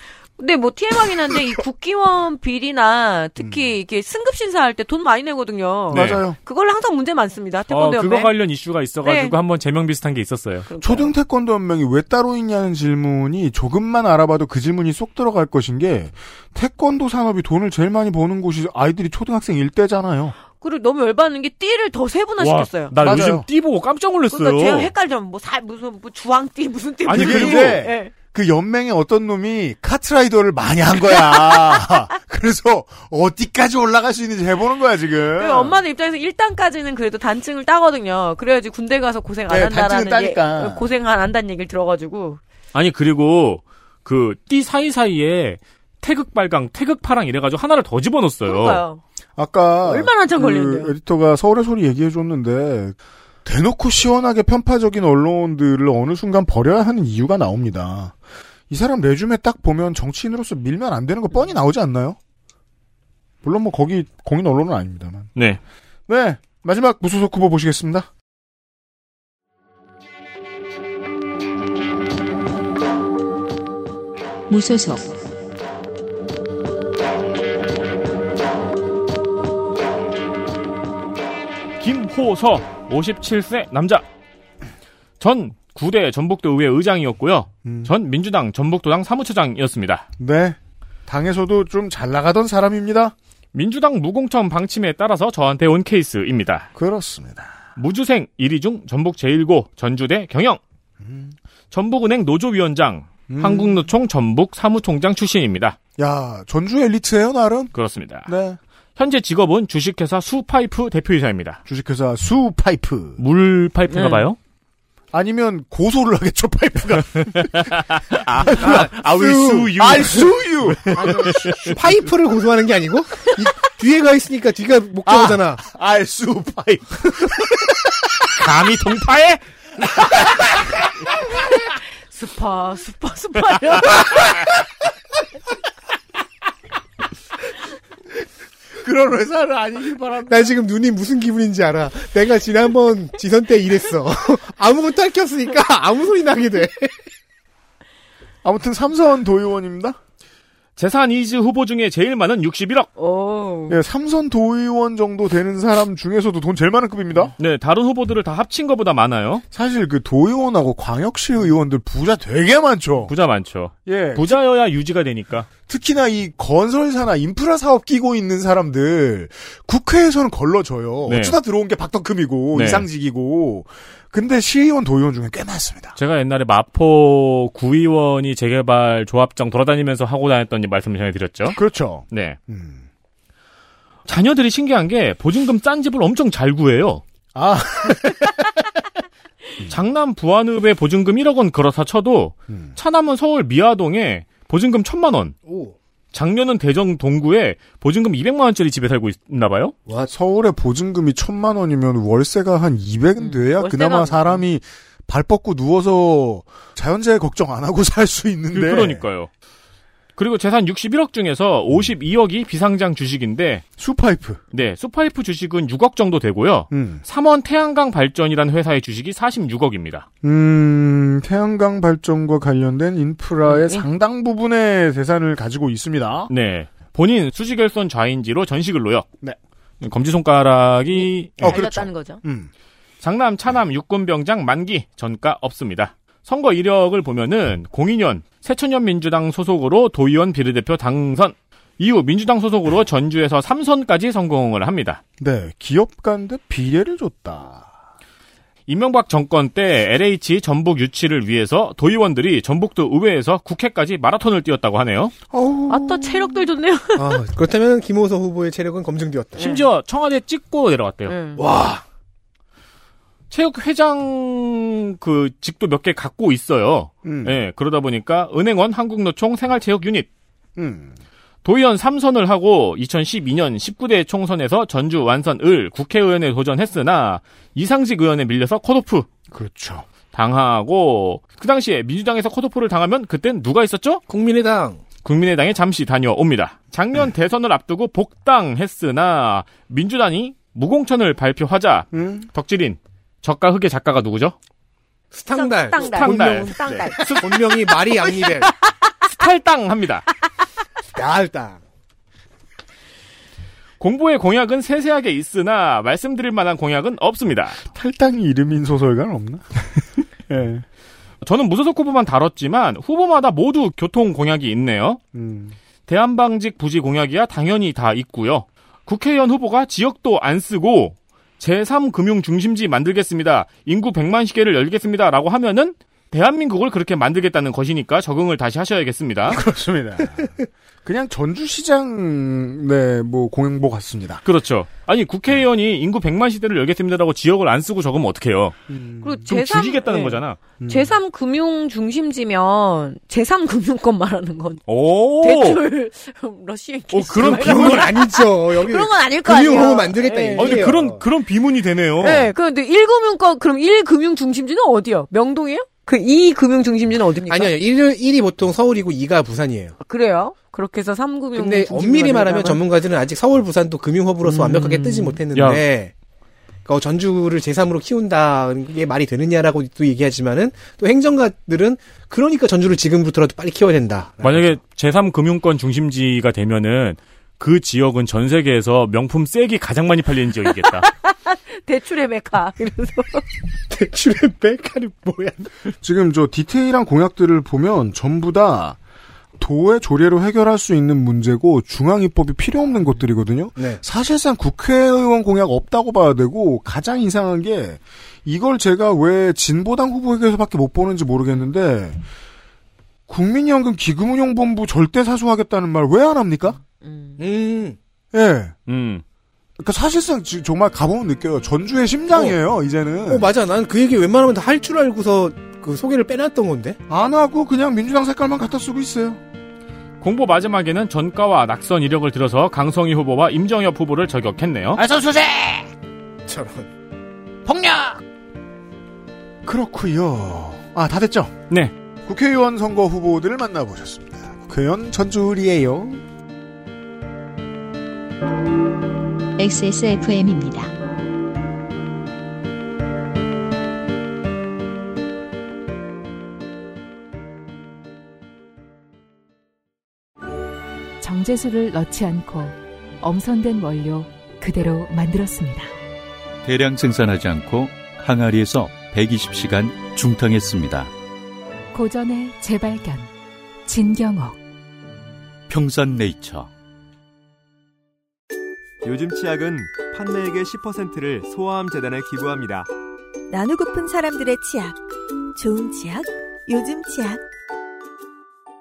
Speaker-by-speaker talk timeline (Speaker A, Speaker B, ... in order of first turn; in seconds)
Speaker A: 0.4-8.3, 9.0-9.3, 10.7-11.1, 20.5-22.9, 24.3-28.1, 35.4-42.4, 48.4-49.0, 49.8-50.9, 113.9-114.3, 132.1-134.2, 153.0-153.8, 203.2-204.4, 223.5-223.8, 231.4-232.2, 255.7-257.2, 259.4-259.6, 261.1-261.4, 295.3-297.1, 339.0-344.6, 345.2-350.7, 352.0-357.6, 359.8-362.6, 364.7-365.1, 380.8-383.2, 406.6-407.2
Speaker B: 5.9-6.2, 7.7-10.7, 22.4-24.9, 27.1-27.8, 42.7-48.8, 81.8-84.0, 85.2-90.0, 93.5-96.7, 97.8-100.6, 101.7-105.8, 107.7-108.3, 109.0-111.6, 113.2-114.4, 117.6-121.8, 128.4-129.4, 150.8-152.9, 157.4-159.4, 163.1-165.5, 171.1-171.4, 172.5-172.8, 176.0-181.6, 182.1-182.4, 184.1-187.0, 189.7-195.3, 196.1-199.7, 208.5-209.3, 210.2-213.6, 214.5-220.1, 226.3-229.1, 229.8-231.5, 233.0-245.0, 248.7-255.1, 259.4-261.1, 263.3-270.1, 271.4-279.1, 280.1-284.0, 285.0-294.3, 295.8-297.7, 299.0-300.1, 303.8-307.6, 311.2-315.0, 315.9-329.4, 334.2-338.6, 339.3-340.4, 344.7-345.6, 346.9-347.9, 350.4-352.3, 365.3-365.6, 374.2-380.9, 408.7-409.0, 420.0-424.8
Speaker C: 5.9-6.4, 10.8-20.4, 23.0-23.5, 27.1-35.8, 39.5-40.9, 49.4-58.1, 58.7-62.2, 63.4-65.3, 66.1-68.1, 87.6-87.9, 90.2-93.1, 96.8-97.5, 101.0-101.3, 103.3-103.8, 106.0-107.7, 108.2-108.6, 111.7-113.2, 115.1-121.3, 125.0-128.2, 138.8-140.5, 148.4-150.0, 153.7-157.3, 159.5-163.1, 163.8-164.4, 165.7-176.0, 181.5-182.8, 187.3-188.6, 200.1-209.0, 213.8-214.4, 216.7-217.0, 220.2-226.3, 231.4-232.5, 245.2-247.7, 255.3-256.4, 267.0-267.4, 270.6-270.9, 279.3-279.9, 291.9-292.3, 307.7-310.6, 315.1-315.5, 329.3-334.2, 338.7-339.2, 340.6-340.9, 385.8-388.8, 389.4-402.0, 403.1-406.6, 408.1-408.5, 409.6-413.3, 416.9-419.2, 424.8-425.7, 427.5-428.0, 429.4-431.3, 432.1-436.0
Speaker D: 74.5-75.1, 439.4-440.7
Speaker E: 121.0-125.6, 140.3-147.1, 195.4-195.8, 257.0-259.5, 261.4-261.8, 284.1-284.8, 295.1-298.5, 300.9-301.6, 347.1-351.0, 357.3-359.8, 361.3-365.9, 366.6-374.5, 383.7-385.5, 393.6-393.8, 407.2-407.8, 412.1-412.4, 413.1-416.8, 426.2-426.7
Speaker F: 451.0-455.7, 461.7-463.1, 463.6-464.4
Speaker G: 456.4-460.9, 465.5-466.5
Speaker H: 468.8-472.7
Speaker I: 473.3-474.8, 475.3-477.2